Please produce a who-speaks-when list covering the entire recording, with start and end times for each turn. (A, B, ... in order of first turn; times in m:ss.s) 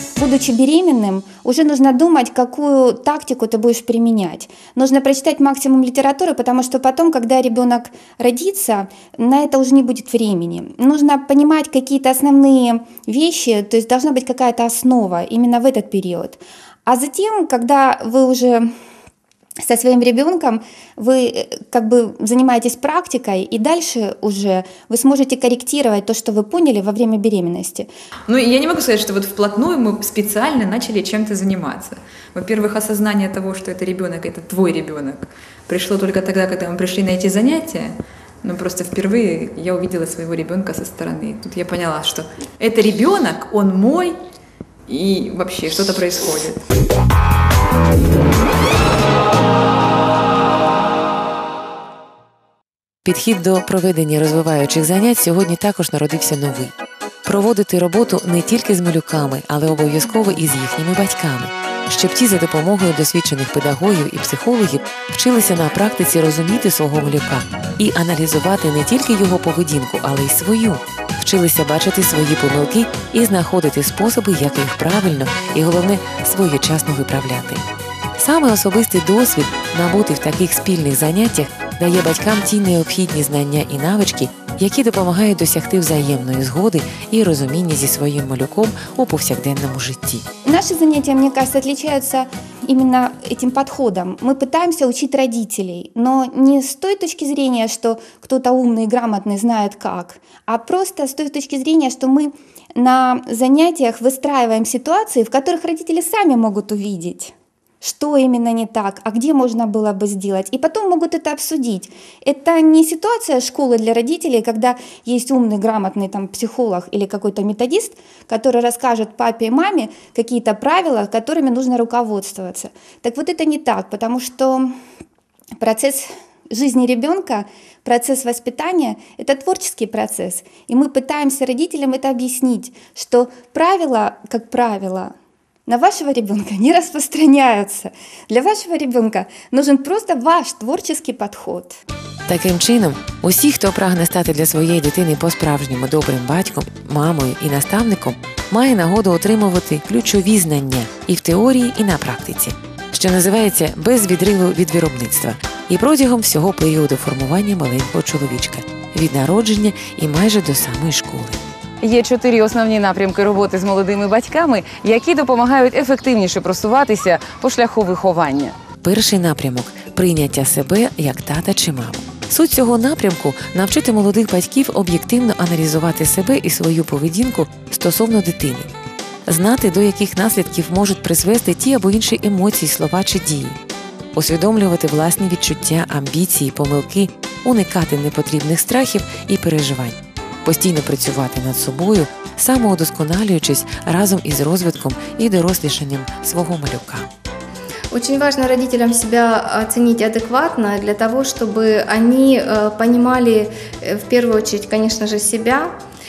0:00.2-0:18.7 A
0:19.6-0:27.9 A
0:28.3-0:44.2 B
0:44.9-0:46.6 B
0:53.0-0:56.7 C
0:57.2-1:17.6 C
1:18.2-1:30.2 C
1:30.4-2:04.7 A
2:05.6-2:15.1 A
2:15.7-2:21.7 A
2:22.3-2:41.4 C
2:41.8-2:48.5 D
2:48.8-2:58.7 C
2:59.3-3:03.6 C
3:04.1-3:17.1 C
3:17.9-3:25.7 E